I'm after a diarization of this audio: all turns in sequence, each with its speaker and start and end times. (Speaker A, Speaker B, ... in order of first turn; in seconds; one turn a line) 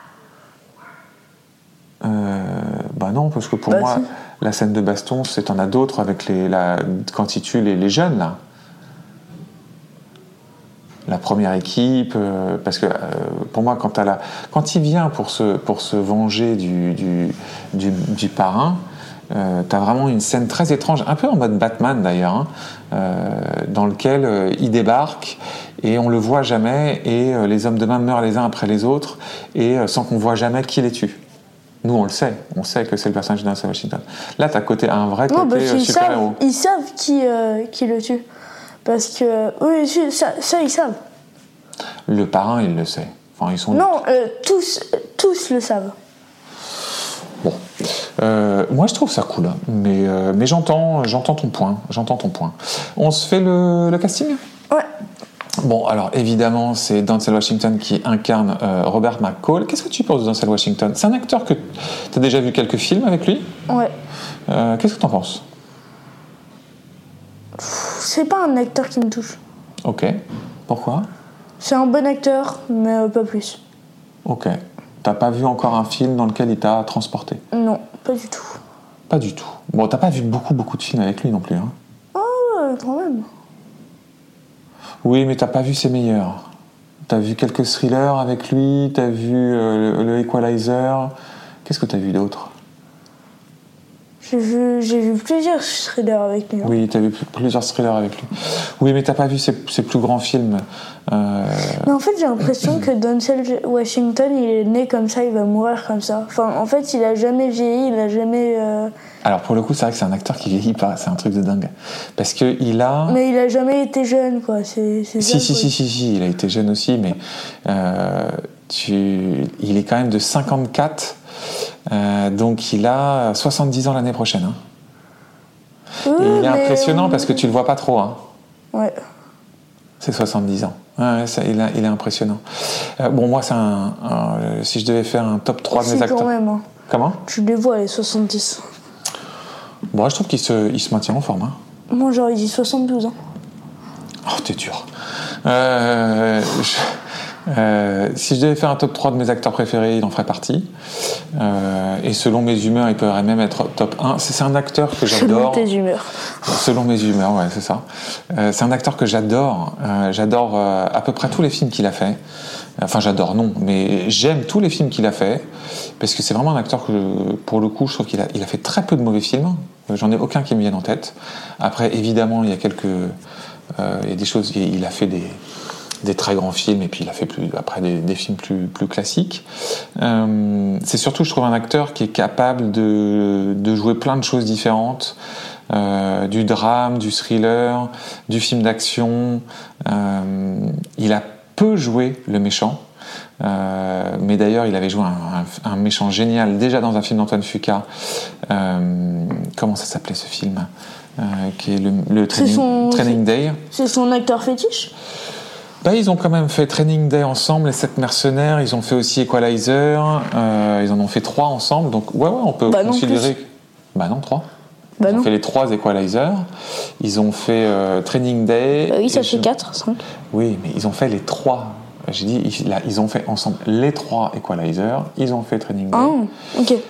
Speaker A: 2.0-8.4
Speaker B: 3.7-4.1
Speaker A: 11.1-31.2
Speaker A: 31.8-36.4
Speaker B: 35.3-38.2
Speaker B: 38.9-41.0
Speaker A: 42.1-43.9
Speaker B: 43.7-45.9
Speaker A: 48.2-54.4
Speaker A: 55.6-63.5
Speaker B: 63.7-63.9
Speaker A: 64.5-65.4
Speaker B: 67.6-69.4
Speaker A: 69.8-70.2
Speaker A: 70.7-71.1
Speaker B: 71.6-73.6
Speaker A: 74.2-77.4
Speaker B: 77.5-78.6
Speaker A: 79.1-81.7
Speaker B: 82.1-83.3
Speaker A: 85.0-86.5
Speaker A: 87.1-91.1
Speaker A: 91.7-92.5
Speaker B: 94.2-96.8
Speaker A: 96.6-101.9
Speaker B: 101.8-108.9
Speaker A: 109.2-113.2
Speaker B: 113.1-115.7
Speaker A: 115.2-121.2
Speaker A: 121.9-124.6
Speaker B: 126.0-127.4
Speaker A: 126.2-128.2
Speaker A: 130.0-132.4
Speaker A: 133.0-136.3
Speaker B: 135.7-136.7
Speaker A: 136.9-137.2
Speaker B: 137.3-138.7
Speaker A: 139.9-141.6
Speaker B: 141.9-143.2
Speaker A: 144.2-144.9
Speaker A: 145.4-146.8
Speaker A: 147.5-150.7
Speaker A: 151.4-155.7
Speaker B: 155.0-156.1
Speaker A: 156.4-162.2
Speaker A: 162.8-165.5
Speaker A: 166.0-173.2
Speaker A: 173.8-175.4
Speaker A: 176.0-179.5
Speaker A: 180.0-185.2
Speaker A: 185.7-192.8
Speaker A: 193.4-197.9
Speaker A: 198.5-203.6
Speaker B: 202.3-204.9
Speaker A: 205.8-214.5
Speaker B: 212.7-213.3
Speaker B: 215.0-215.3
Speaker A: 215.1-216.5
Speaker A: 217.0-219.5
Speaker B: 218.9-220.0
Speaker A: 220.3-226.2
Speaker B: 225.9-226.8